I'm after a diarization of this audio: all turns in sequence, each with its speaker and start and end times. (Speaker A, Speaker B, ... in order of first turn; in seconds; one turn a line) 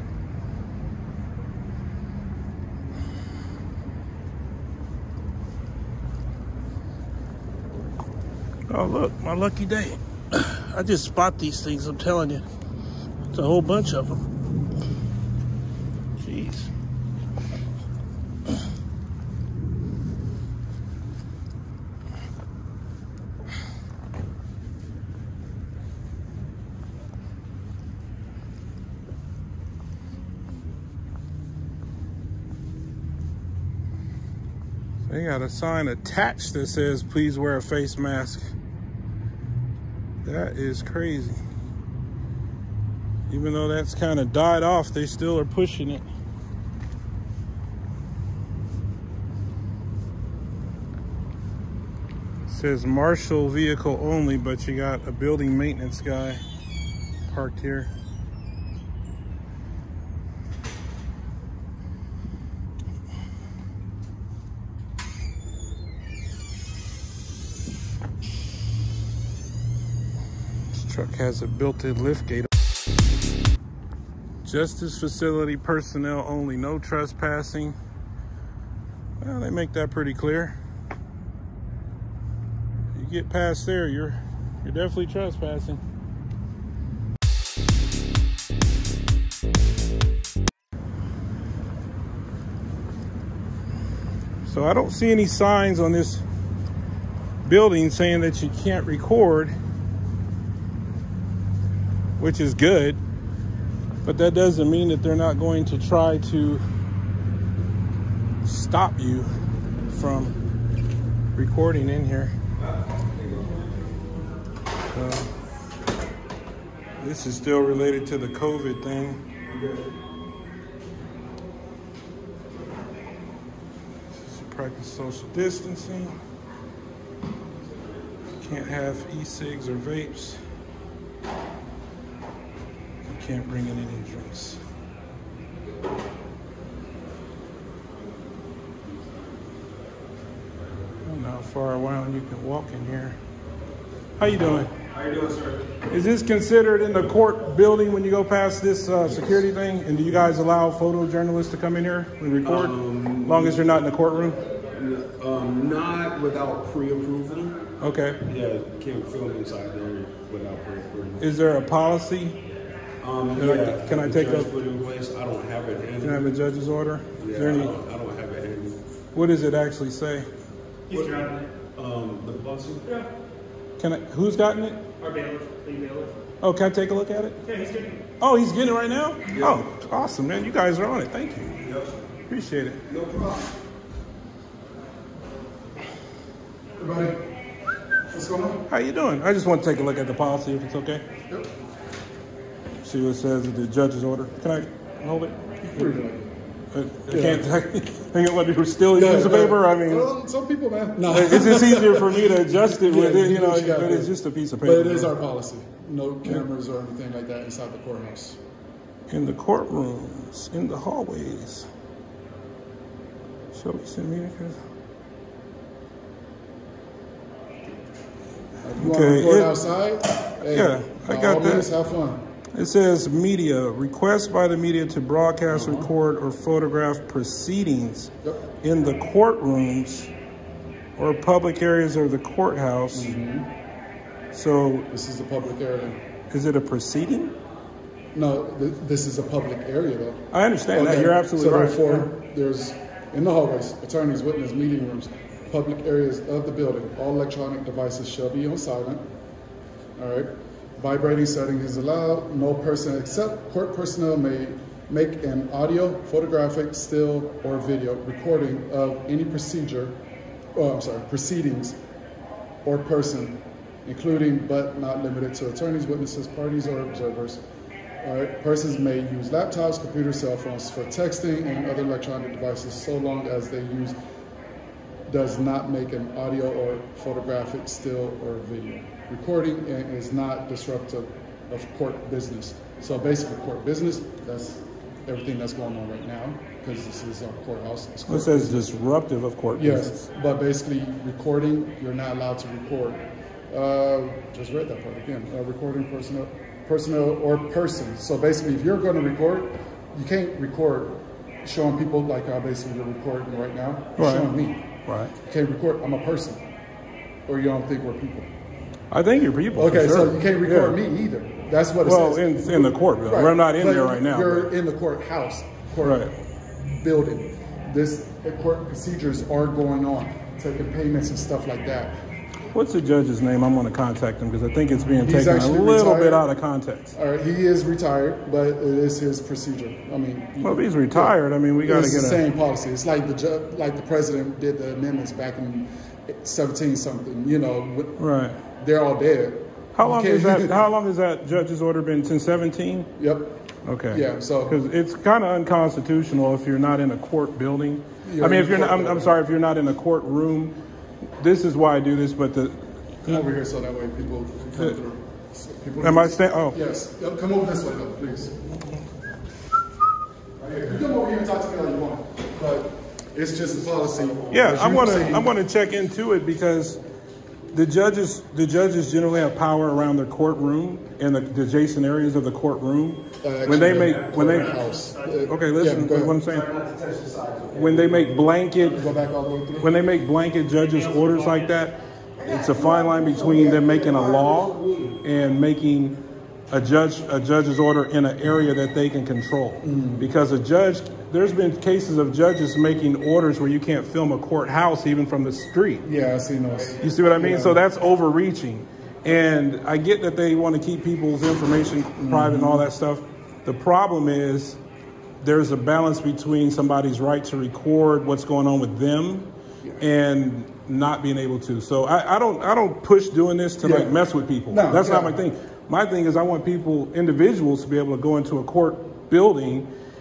Speaker A: 8.7-12.5
Speaker A: 13.3-14.2
Speaker A: 16.2-16.7
Speaker A: 35.1-38.5
Speaker A: 40.2-41.4
Speaker A: 43.3-46.1
Speaker A: 52.5-56.4
Speaker A: 57.2-57.9
Speaker A: 70.7-72.5
Speaker A: 74.5-77.8
Speaker A: 79.2-80.6
Speaker A: 82.9-85.8
Speaker A: 94.5-96.2
Speaker A: 97.4-99.5
Speaker A: 102.2-103.0
Speaker A: 104.0-106.6
Speaker A: 108.4-109.3
Speaker A: 109.9-110.4
Speaker A: 111.3-112.3
Speaker B: 112.6-113.9
Speaker A: 114.9-115.3
Speaker A: 117.0-119.2
Speaker B: 119.5-119.8
Speaker A: 124.1-126.2
Speaker A: 128.4-130.4
Speaker A: 133.0-134.6
Speaker A: 141.1-143.2
Speaker A: 144.2-144.7
Speaker B: 144.9-145.8
Speaker A: 145.9-154.4
Speaker B: 152.4-153.9
Speaker B: 154.5-157.6
Speaker A: 157.8-158.2
Speaker B: 158.3-161.3
Speaker A: 161.2-162.4
Speaker B: 163.0-166.2
Speaker A: 163.4-164.5
Speaker A: 166.0-167.8
Speaker B: 167.2-168.8
Speaker A: 169.1-170.3
Speaker C: 170.9-171.4
Speaker B: 170.9-172.9
Speaker A: 173.8-174.9
Speaker C: 175.0-176.2
Speaker A: 176.4-177.4
Speaker C: 177.4-178.0
Speaker A: 178.2-181.6
Speaker B: 179.3-179.7
Speaker B: 181.6-182.0
Speaker A: 182.3-182.8
Speaker B: 182.9-183.4
Speaker D: 186.8-187.4
Speaker D: 188.1-188.7
Speaker A: 188.7-191.1
Speaker A: 192.8-195.9
Speaker D: 195.6-196.3
Speaker A: 196.7-200.1
Speaker D: 197.1-197.5
Speaker D: 198.9-208.4
Speaker A: 201.1-205.2
Speaker A: 209.1-211.7
Speaker A: 213.5-214.6
Speaker D: 218.6-222.3
Speaker A: 218.8-219.5
Speaker A: 220.4-221.7
Speaker A: 222.5-228.1
Speaker D: 225.5-225.9
Speaker A: 228.6-230.1
Speaker A: 231.0-233.1
Speaker D: 232.9-233.5
Speaker A: 234.3-234.9
Speaker D: 234.9-236.0
Speaker A: 236.3-237.3
Speaker D: 238.1-249.1
Speaker A: 240.3-242.1
Speaker D: 250.0-260.0
Speaker D: 260.6-261.8
Speaker D: 262.6-267.4
Speaker D: 268.0-274.0
Speaker D: 275.1-288.7
Speaker A: 288.1-290.0
Speaker D: 289.6-306.5
Speaker A: 304.0-305.1
Speaker D: 307.3-308.3
Speaker A: 308.9-310.8
Speaker D: 309.5-316.1
Speaker A: 311.8-314.5
Speaker A: 315.8-316.1
Speaker D: 316.6-322.0
Speaker A: 322.5-326.9
Speaker D: 324.9-326.3
Speaker D: 326.9-340.6
Speaker A: 330.4-332.2
Speaker A: 338.0-338.4
Speaker A: 339.8-342.9
Speaker D: 343.0-344.6
Speaker A: 343.6-350.6
Speaker D: 348.0-349.1
Speaker A: 351.2-353.2
Speaker D: 353.0-358.4
Speaker A: 355.8-356.6
Speaker D: 360.4-365.3
Speaker A: 364.3-366.8
Speaker A: 367.5-374.6
Speaker D: 373.2-376.2
Speaker B: 373.7-374.7
Speaker C: 374.7-375.3
Speaker A: 375.3-376.5
Speaker B: 376.2-378.9
Speaker A: 377.5-378.9
Speaker D: 378.7-379.7
Speaker A: 379.6-395.9
Speaker C: 380.7-381.6
Speaker B: 382.2-385.0
Speaker D: 389.6-390.1
Speaker D: 395.8-397.6
Speaker A: 396.8-404.6
Speaker D: 402.0-402.7
Speaker A: 405.2-419.7
Speaker D: 413.6-415.2